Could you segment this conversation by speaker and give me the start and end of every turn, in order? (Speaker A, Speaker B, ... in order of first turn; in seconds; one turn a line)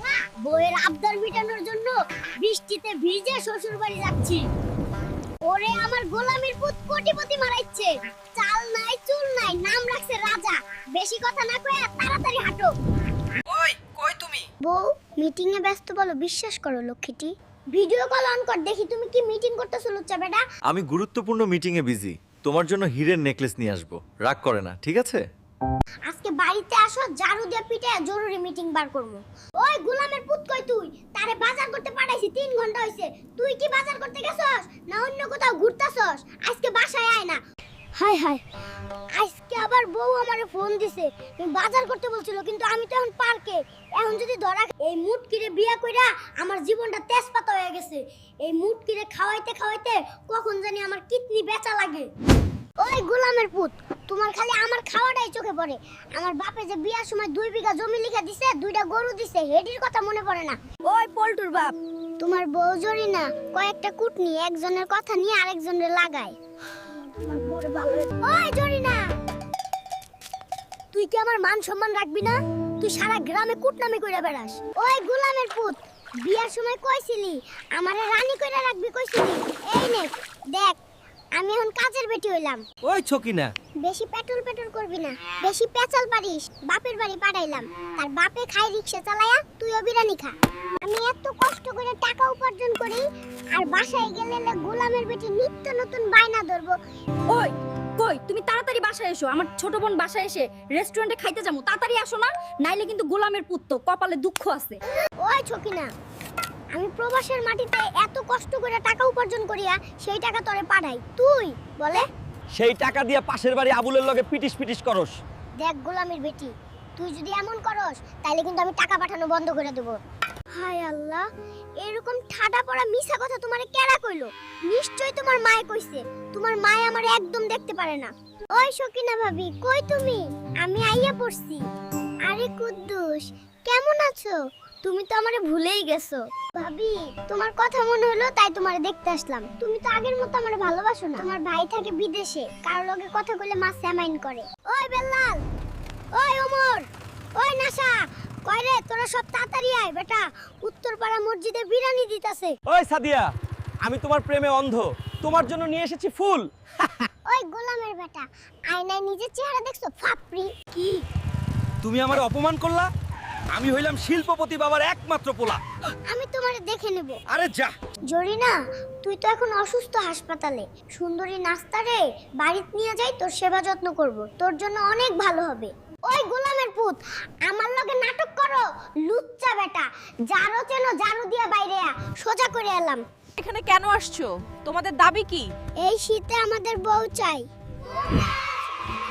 Speaker A: 0.2-4.4
Speaker A: 5.5-12.7
Speaker A: 14.6-20.4
Speaker B: 20.7-25.2
Speaker A: 26.1-37.4
Speaker A: 38.0-38.4
Speaker A: 39.2-52.1
Speaker A: 52.8-60.6
Speaker C: 60.9-61.8
Speaker A: 62.2-66.3
Speaker C: 67.2-68.1
Speaker A: 68.2-69.0
Speaker A: 70.9-80.8
Speaker A: 81.4-82.6
Speaker B: 82.9-83.5
Speaker A: 83.8-96.8
Speaker C: 97.3-104.8
Speaker A: 105.2-105.9
Speaker A: 106.7-112.1
Speaker D: 112.5-115.2
Speaker A: 115.6-120.0
Speaker A: 120.5-121.3
Speaker A: 121.8-131.6
Speaker A: 132.3-145.4
Speaker A: 146.2-146.9
Speaker A: 147.4-147.9
Speaker A: 148.5-152.6
Speaker D: 152.7-153.3
Speaker D: 153.8-157.0
Speaker A: 157.3-161.0
Speaker D: 161.8-162.9
Speaker D: 163.5-165.6
Speaker A: 166.1-167.2
Speaker D: 167.3-167.7
Speaker A: 168.1-183.0
Speaker E: 183.4-185.5
Speaker A: 185.8-187.5